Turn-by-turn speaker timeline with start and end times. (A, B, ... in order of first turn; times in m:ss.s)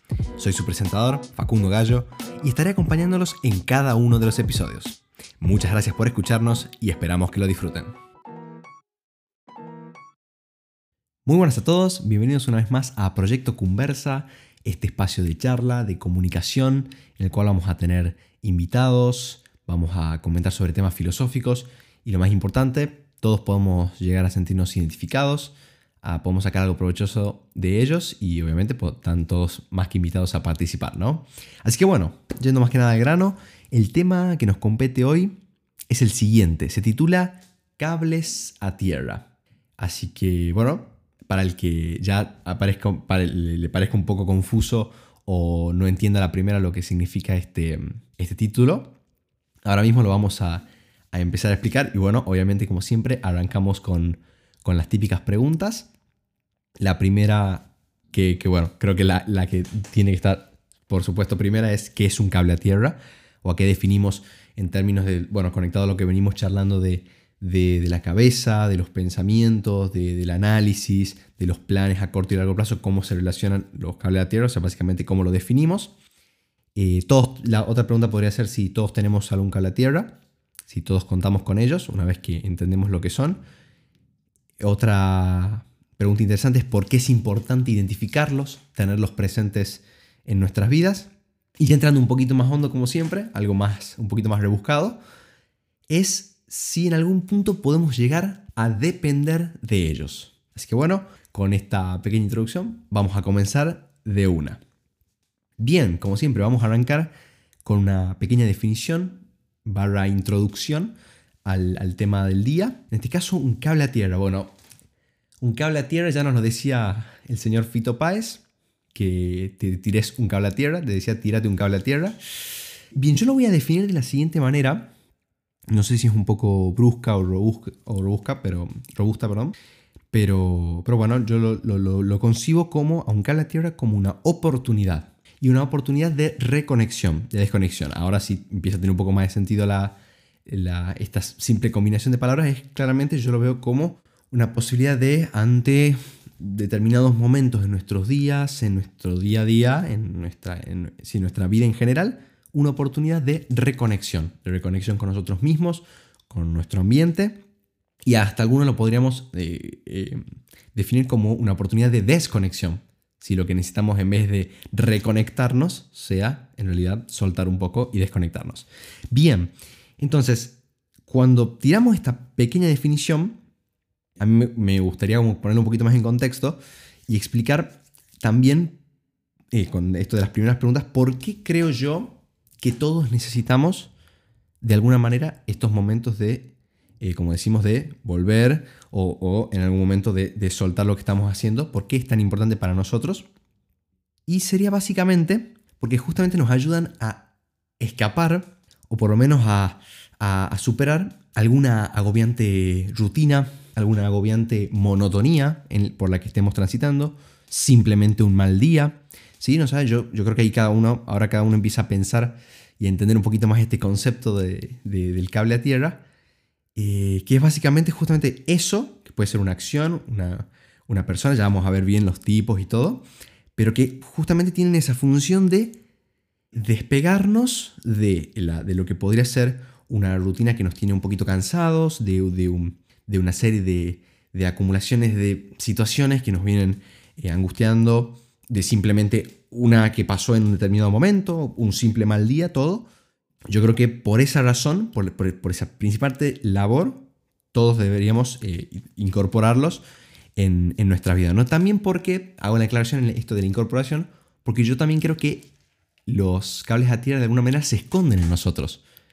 0:00.4-0:08.0 A
0:11.2-0:35.3 A
0:35.9-0:48.9 A
0:49.6-0:55.9 A
0:56.8-1:15.9 A
1:16.8-1:23.4 A
1:24.6-1:35.0 A
1:35.9-1:44.6 A
1:45.6-1:47.1 A
1:47.6-1:54.5 A
1:55.4-2:02.2 A
2:02.9-2:04.9 A
2:05.7-2:09.5 A
2:10.1-2:37.4 A
2:38.0-2:40.2 A
2:40.7-2:53.4 A
2:54.2-2:58.8 A
2:59.5-3:03.9 A
3:04.6-3:13.3 A
3:14.3-3:17.3 A
3:17.8-3:36.0 A
3:36.7-3:43.0 A
3:43.6-3:45.8 A
3:46.6-4:02.9 A
4:03.5-4:09.8 A
4:10.4-4:15.5 A
4:16.1-4:18.8 A